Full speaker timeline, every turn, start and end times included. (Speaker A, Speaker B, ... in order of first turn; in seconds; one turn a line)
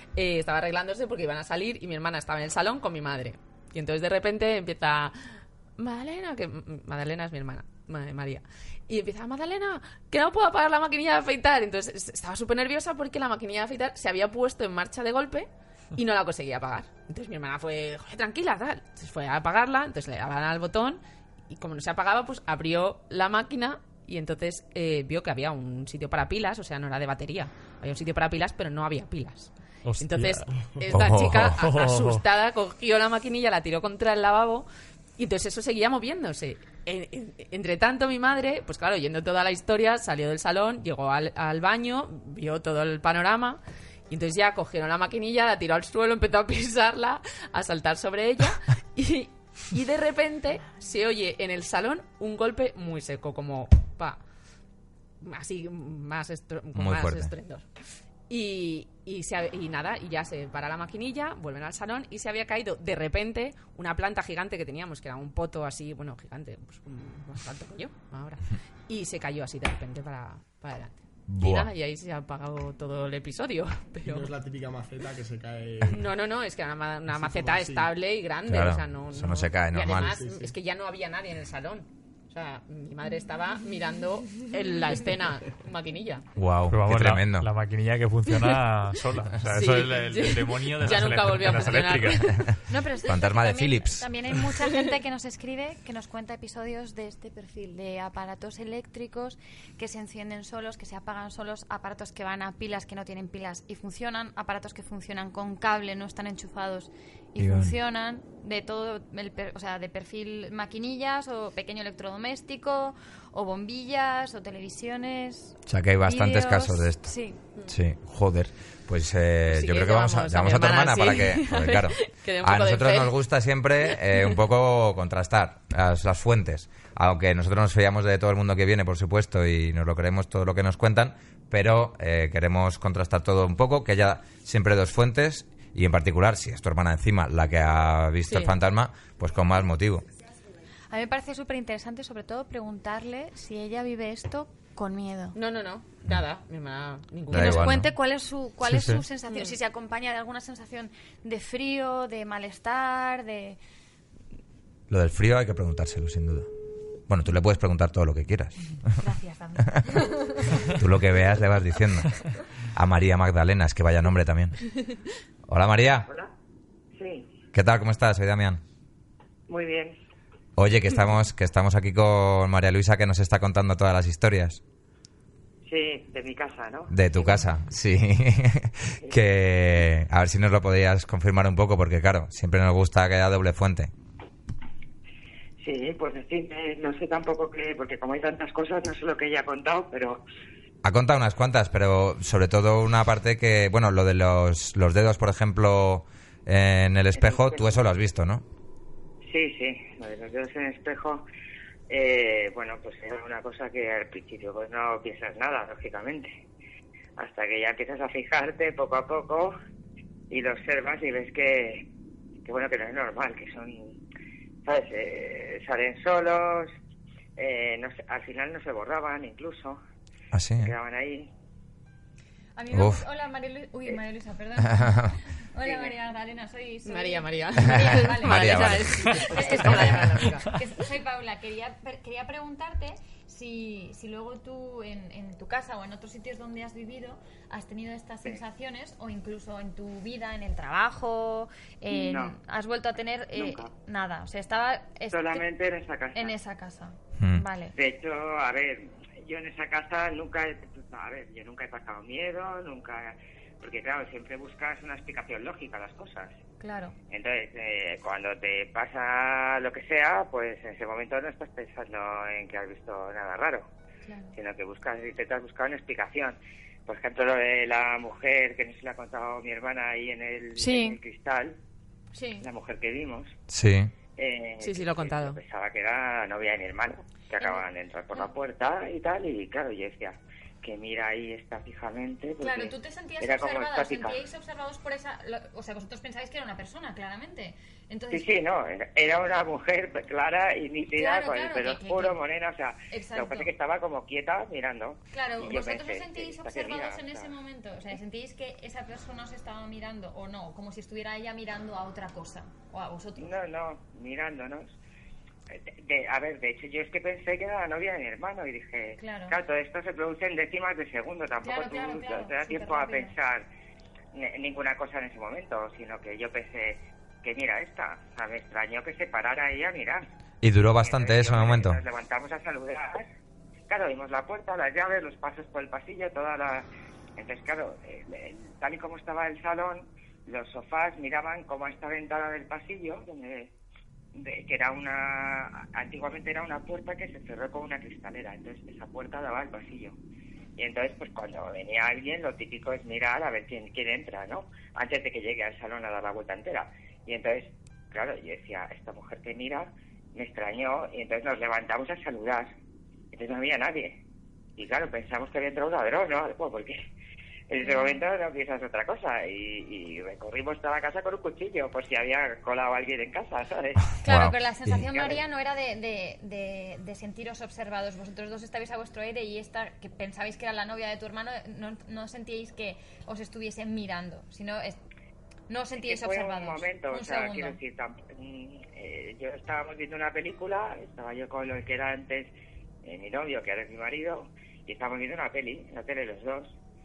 Speaker A: 0.2-54.2
Speaker B: 29.8-30.5
Speaker C: 30.9-31.6
Speaker B: 31.6-32.2
Speaker A: 55.2-57.7
Speaker C: 56.8-57.3
Speaker A: 58.3-74.3
Speaker C: 71.3-71.7
Speaker D: 74.0-76.1
Speaker A: 75.9-86.2
Speaker D: 77.1-77.9
Speaker C: 78.5-80.1
Speaker D: 79.8-80.5
Speaker C: 86.4-87.5
Speaker B: 86.7-92.3
Speaker A: 89.4-92.5
Speaker C: 92.4-94.1
Speaker E: 92.7-117.4
Speaker C: 107.4-107.7
Speaker C: 115.7-117.1
Speaker C: 117.7-140.1
Speaker A: 119.5-123.2
Speaker A: 138.3-138.6
Speaker E: 140.9-145.4
Speaker A: 145.3-147.8
Speaker E: 147.3-153.6
Speaker C: 147.3-147.9
Speaker B: 148.7-149.0
Speaker A: 149.3-149.6
Speaker C: 154.9-156.5
Speaker C: 157.1-159.0
Speaker E: 159.0-160.7
Speaker C: 160.6-164.8
Speaker C: 165.5-166.1
Speaker F: 166.1-166.3
Speaker F: 166.9-167.3
Speaker C: 167.5-168.6
Speaker F: 169.5-170.0
Speaker C: 170.6-174.6
Speaker F: 175.7-177.3
Speaker C: 176.9-183.9
Speaker F: 185.6-190.2
Speaker C: 190.8-198.4
Speaker F: 197.1-197.9
Speaker F: 199.3-201.2
Speaker F: 201.9-206.4
Speaker F: 207.2-209.6
Speaker F: 210.3-211.8
Speaker F: 212.4-214.0
Speaker F: 214.6-216.7
Speaker F: 217.4-219.8
Speaker C: 220.3-220.7
Speaker F: 220.6-221.3
Speaker E: 222.6-245.4
Speaker C: 222.7-223.0
Speaker C: 224.7-225.1
Speaker F: 225.6-225.9
Speaker A: 226.8-230.6
Speaker C: 227.6-230.3
Speaker F: 241.9-242.4
Speaker F: 243.3-243.7
Speaker F: 245.1-246.4
Speaker E: 246.1-247.7
Speaker C: 247.2-247.4
Speaker F: 247.7-256.4
Speaker E: 256.6-256.9
Speaker F: 257.1-263.7
Speaker E: 264.1-264.3
Speaker F: 264.3-271.6
Speaker E: 270.6-271.0
Speaker E: 272.1-272.5
Speaker F: 272.4-273.4
Speaker C: 273.5-273.9
Speaker F: 274.2-284.2
Speaker A: 274.6-275.4
Speaker E: 282.4-288.3
Speaker F: 288.1-297.3
Speaker E: 290.9-292.2
Speaker E: 292.9-293.5
Speaker E: 295.1-303.4
Speaker F: 303.2-304.8
Speaker F: 305.5-313.4
Speaker E: 309.0-309.4
Speaker E: 311.4-313.1
Speaker F: 314.1-320.1
Speaker C: 320.4-321.8
Speaker F: 320.7-323.1
Speaker F: 323.7-333.5
Speaker F: 334.1-340.0
Speaker F: 340.6-352.5
Speaker F: 353.1-354.0
Speaker F: 354.6-356.8
Speaker F: 357.5-363.9
Speaker E: 357.6-358.0
Speaker E: 364.0-374.8
Speaker C: 364.1-364.8
Speaker F: 364.8-365.2
Speaker E: 375.5-377.6
Speaker F: 375.7-382.3
Speaker F: 382.8-386.6